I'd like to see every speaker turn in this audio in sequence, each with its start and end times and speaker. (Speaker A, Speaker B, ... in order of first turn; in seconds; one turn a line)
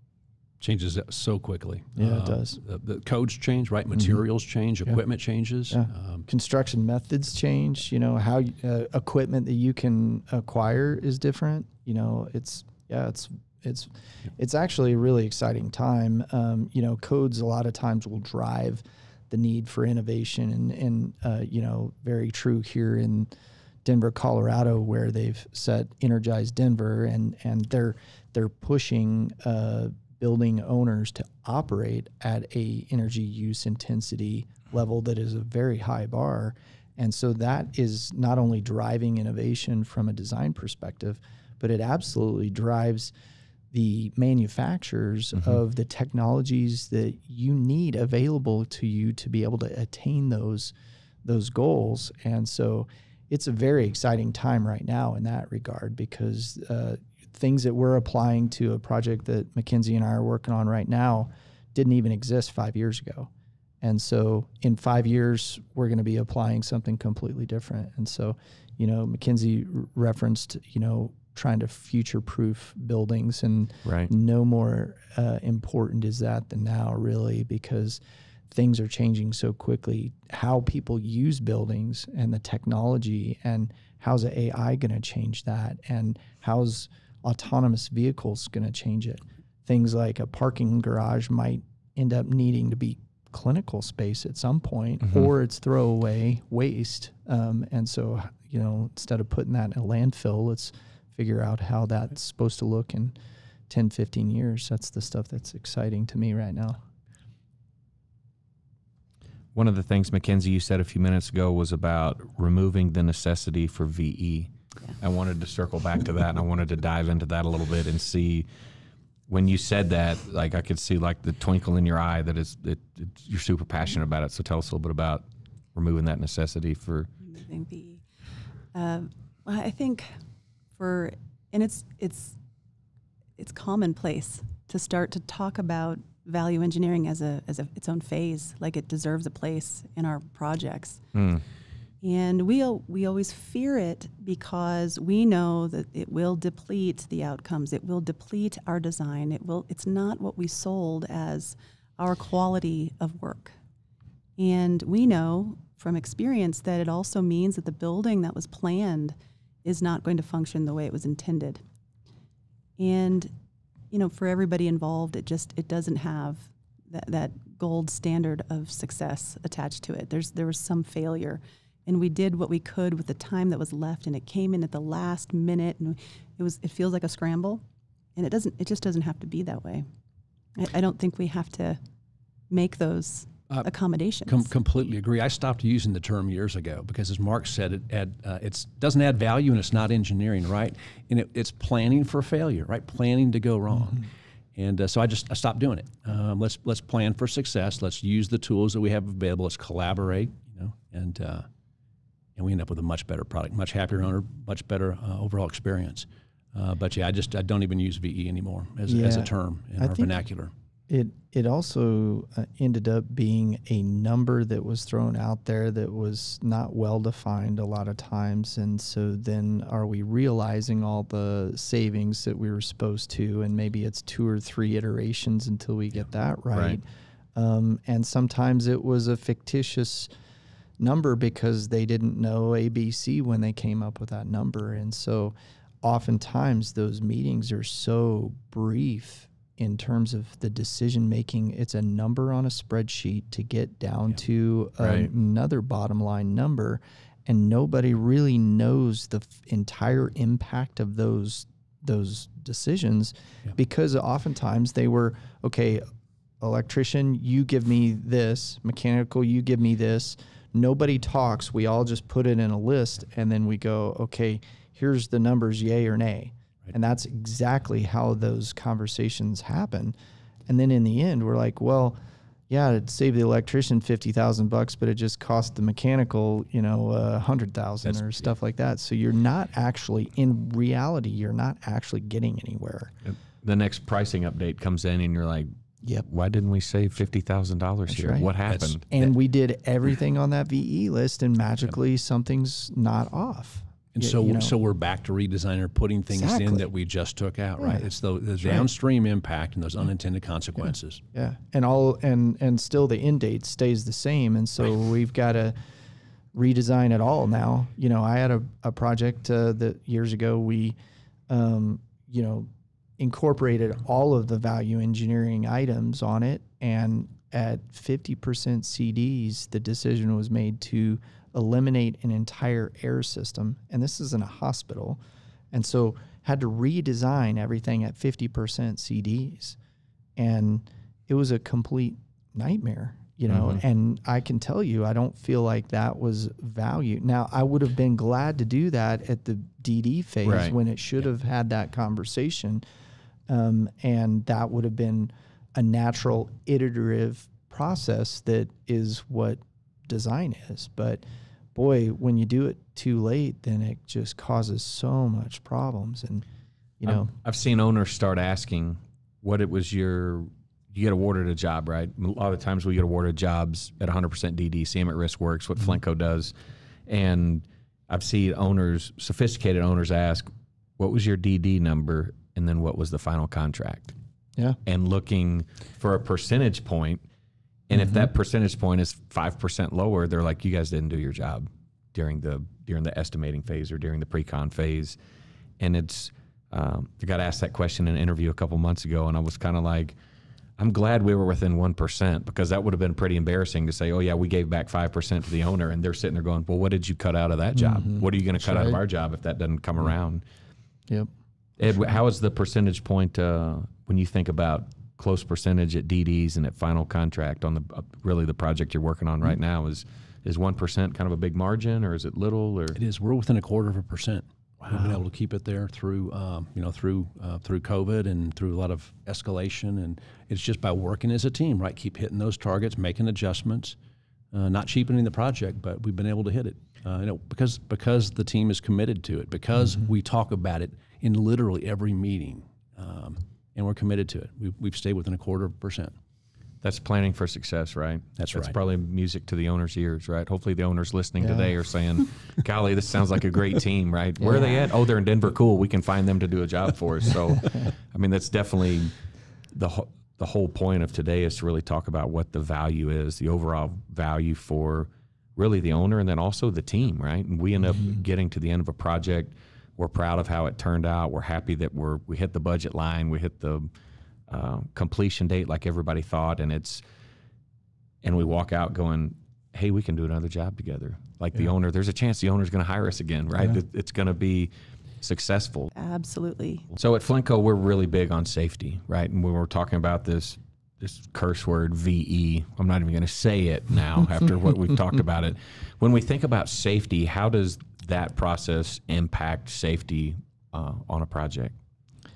Speaker A: 0.6-6.3
Speaker B: 2.0-2.6
Speaker B: 5.7-23.3
Speaker B: 23.8-43.1
Speaker B: 43.7-63.3
Speaker B: 63.8-103.2
Speaker C: 73.8-74.1
Speaker B: 103.7-106.8
Speaker C: 109.5-118.5
Speaker C: 119.3-127.1
Speaker D: 127.2-128.0
Speaker D: 128.7-130.2
Speaker D: 130.8-132.4
Speaker D: 133.4-141.0
Speaker C: 141.1-141.4
Speaker D: 142.0-153.6
Speaker D: 154.4-161.6
Speaker D: 162.8-163.3
Speaker D: 163.9-177.6
Speaker D: 178.2-179.9
Speaker D: 180.6-181.8
Speaker D: 182.5-184.5
Speaker A: 184.3-201.5
Speaker A: 202.4-210.5
Speaker B: 208.9-210.1
Speaker B: 210.9-230.1
Speaker C: 226.5-226.8
Speaker B: 230.8-255.9
Speaker C: 244.8-245.1
Speaker B: 256.4-269.9
Speaker B: 270.5-272.0
Speaker B: 272.5-282.9
Speaker C: 283.1-285.5
Speaker C: 286.1-288.9
Speaker B: 287.9-288.3
Speaker A: 288.5-289.1
Speaker B: 288.9-294.6
Speaker A: 294.0-301.0
Speaker B: 296.1-296.7
Speaker B: 297.6-297.9
Speaker B: 298.4-298.7
Speaker B: 301.1-305.6
Speaker B: 306.3-310.8
Speaker B: 311.3-325.0
Speaker B: 325.5-329.6
Speaker B: 330.2-342.6
Speaker C: 333.3-333.6
Speaker C: 340.2-340.6
Speaker B: 343.3-356.2
Speaker B: 356.8-357.1
Speaker C: 356.9-366.3
Speaker C: 366.9-373.9
Speaker C: 374.6-377.0
Speaker C: 377.7-385.0
Speaker B: 377.7-378.1
Speaker C: 385.6-390.0
Speaker C: 390.6-400.2
Speaker B: 397.6-398.8
Speaker C: 401.6-412.8
Speaker A: 412.8-423.8
Speaker A: 424.3-435.9
Speaker C: 436.6-448.9
Speaker A: 438.2-438.6
Speaker B: 441.2-441.5
Speaker B: 444.2-444.7
Speaker C: 449.5-463.7
Speaker C: 464.3-466.8
Speaker C: 468.0-475.7
Speaker D: 475.7-476.7
Speaker C: 476.7-491.6